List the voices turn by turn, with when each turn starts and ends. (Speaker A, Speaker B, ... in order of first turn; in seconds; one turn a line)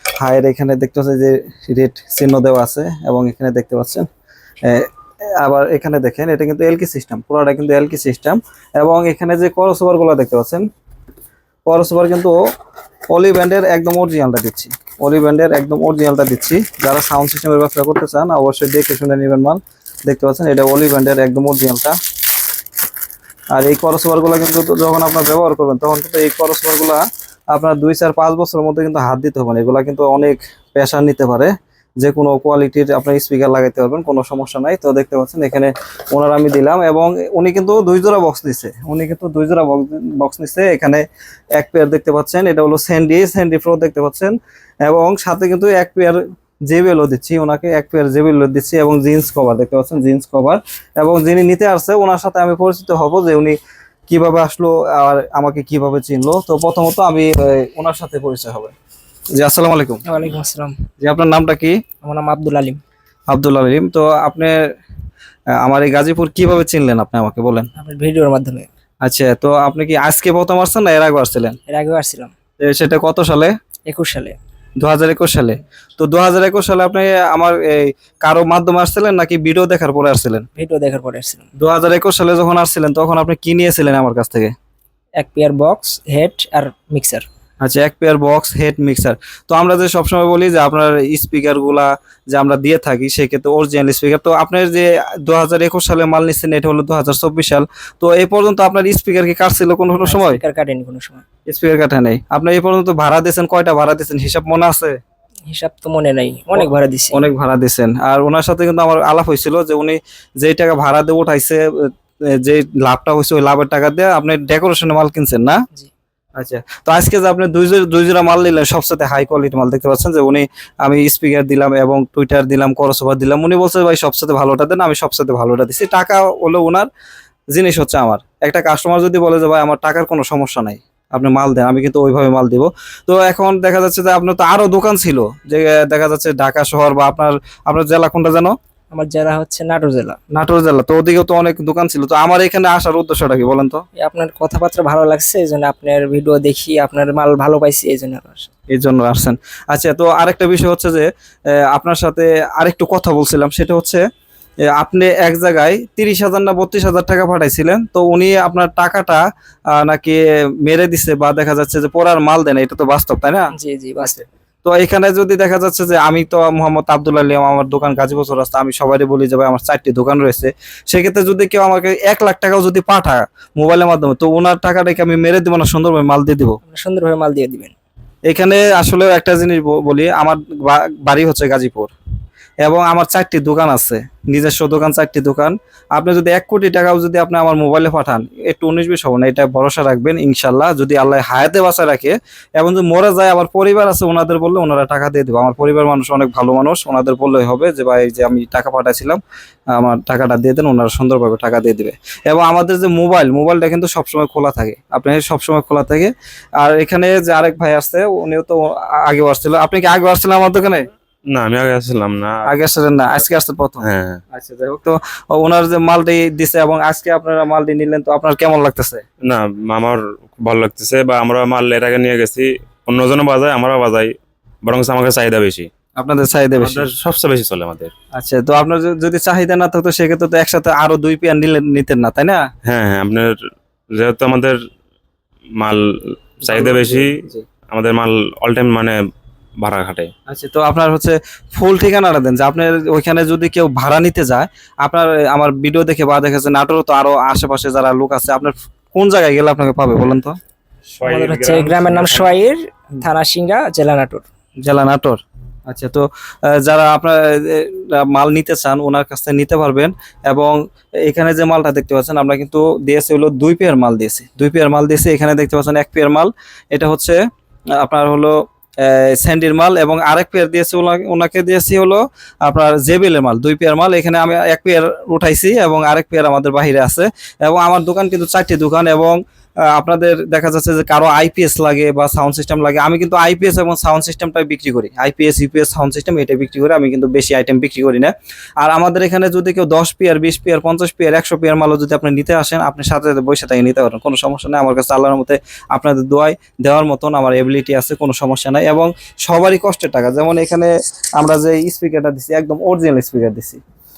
Speaker A: 0.2-4.1
Speaker A: 5.4-10.7
Speaker A: 11.7-12.4
Speaker A: 13.1-22.0
Speaker A: 23.5-41.0
Speaker A: 41.6-53.6
Speaker A: 54.1-58.7
Speaker A: 59.4-60.0
Speaker B: 60.1-60.8
Speaker A: 61.0-61.8
Speaker B: 62.0-62.8
Speaker A: 63.3-64.6
Speaker A: 65.6-67.7
Speaker B: 67.8-68.7
Speaker A: 69.0-71.6
Speaker B: 71.7-72.3
Speaker A: 72.6-73.5
Speaker B: 73.9-74.4
Speaker A: 74.8-80.5
Speaker B: 80.6-81.5
Speaker A: 81.6-84.5
Speaker B: 85.2-87.3
Speaker A: 87.6-100.4
Speaker B: 100.0-101.2
Speaker A: 101.5-105.0
Speaker B: 105.5-107.2
Speaker A: 106.5-115.6
Speaker A: 116.4-126.9
Speaker A: 127.5-138.5
Speaker B: 138.9-140.2
Speaker A: 140.3-143.8
Speaker B: 144.0-148.5
Speaker A: 148.7-154.0
Speaker A: 154.7-176.6
Speaker B: 163.6-164.2
Speaker B: 176.7-177.7
Speaker A: 178.3-181.9
Speaker A: 182.6-199.2
Speaker A: 199.7-210.8
Speaker C: 211.3-212.4
Speaker A: 212.5-219.0
Speaker C: 213.8-214.2
Speaker C: 219.2-224.1
Speaker C: 224.7-225.7
Speaker A: 226.0-226.9
Speaker C: 226.6-227.9
Speaker A: 228.2-232.4
Speaker C: 232.7-233.3
Speaker C: 234.0-234.6
Speaker C: 236.4-237.1
Speaker A: 236.5-237.5
Speaker C: 237.7-238.9
Speaker C: 239.6-240.1
Speaker A: 240.3-250.4
Speaker C: 250.9-252.3
Speaker B: 251.0-254.2
Speaker A: 254.6-267.2
Speaker A: 267.8-279.2
Speaker A: 279.7-303.6